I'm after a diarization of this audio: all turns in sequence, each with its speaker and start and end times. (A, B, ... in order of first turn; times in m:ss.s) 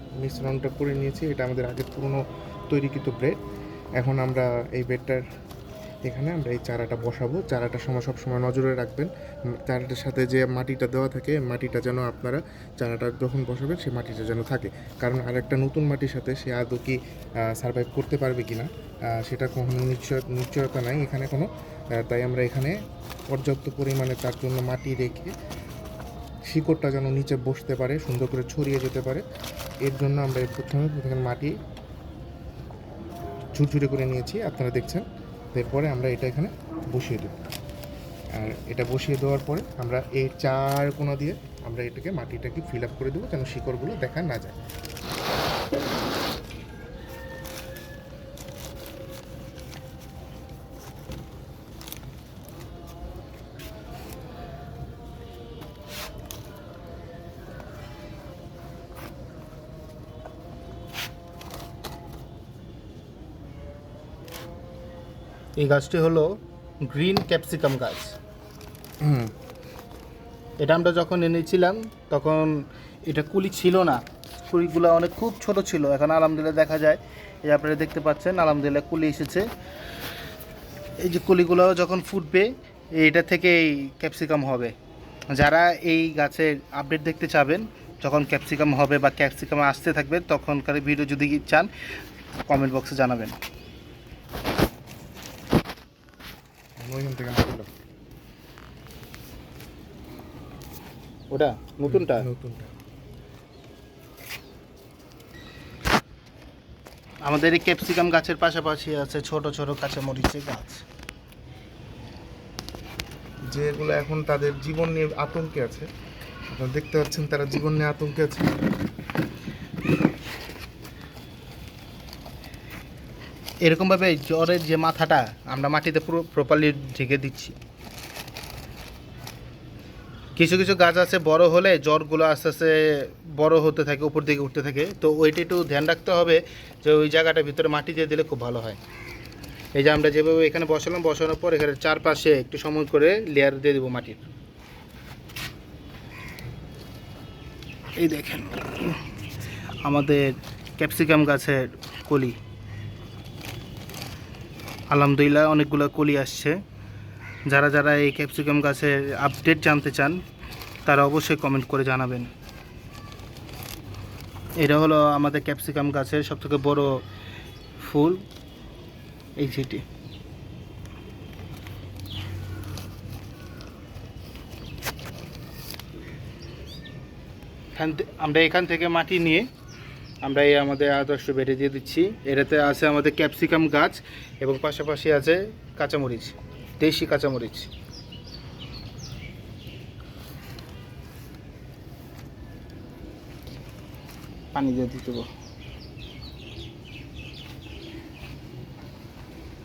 0:00.2-0:03.4 A
0:04.0-0:05.2 A
0:06.1-0:09.1 A
0:09.6-0:17.0 A
0:17.6-0:21.5 A
0:22.0-0:22.7 A
0:23.3-0:25.3 A
0:26.5-0:29.2 A
0:29.8-0:31.5 A
0:33.6-0:37.3 A
0:38.4-0:44.6 A
1:05.6-1:06.3 B
1:06.8-1:08.2 B
1:09.0-1:09.3 A
1:10.6-1:19.5 B
1:21.0-1:24.7 B
1:25.3-1:31.7 B
1:32.5-1:33.3 B
1:36.8-1:37.7 A
1:41.3-1:42.3 B
1:41.9-1:42.7 A
1:47.2-1:50.8 B
1:53.5-1:55.9 A
1:56.5-1:58.5 A
2:03.6-2:07.5 B
2:10.4-2:18.8 B
2:19.7-2:24.2 B
2:28.0-2:29.0 B
2:29.8-2:32.3 B
2:34.9-2:36.6 B
2:37.5-2:40.2 B
2:40.8-2:42.3 B
2:44.6-2:47.0 B
2:47.8-2:48.2 B
2:49.4-2:49.8 B
2:57.8-2:59.5 B
3:00.2-3:07.7 B
3:14.5-3:15.3 B